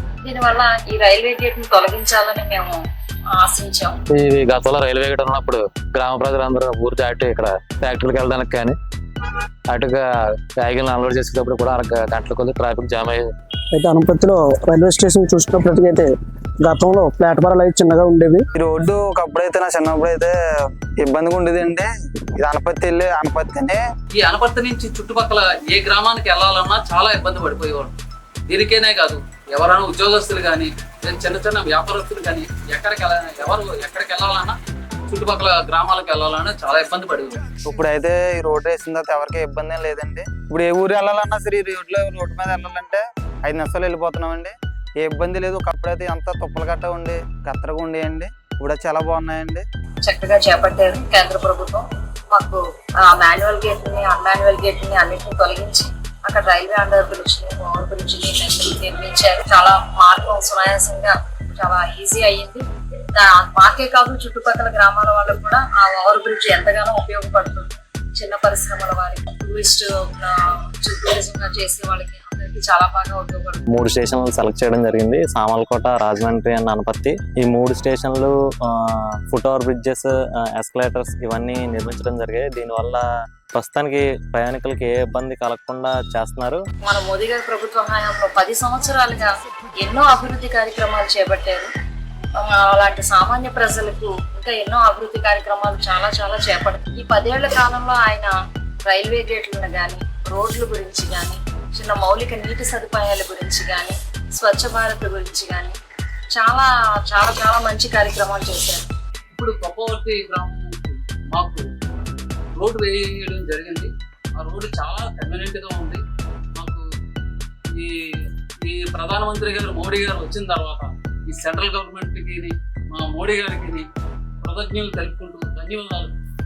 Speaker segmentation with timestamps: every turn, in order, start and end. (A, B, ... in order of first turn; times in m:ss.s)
0:00.2-0:02.8 A
0:03.3-0:04.0 A
0:04.1-0:08.8 B
0:09.7-0:10.0 B
0:10.6-0:13.3 B
0:13.7-0:16.1 C
0:16.6-0:18.4 C
0:18.6-0:20.3 D
0:21.0-0:23.8 D
0:24.2-0:28.0 E
0:28.5-0:34.6 E
0:35.1-0:37.4 E
0:37.7-0:49.6 D
0:50.0-1:13.6 A
1:13.7-1:26.6 F
1:26.8-1:31.7 A
1:32.4-1:38.3 A
1:38.9-1:45.8 A
1:46.3-1:48.9 A
1:49.3-1:51.7 E
1:52.6-1:56.0 E
1:56.6-1:56.8 E
1:57.7-1:58.1 E
1:58.6-2:03.9 E
2:04.4-2:06.2 E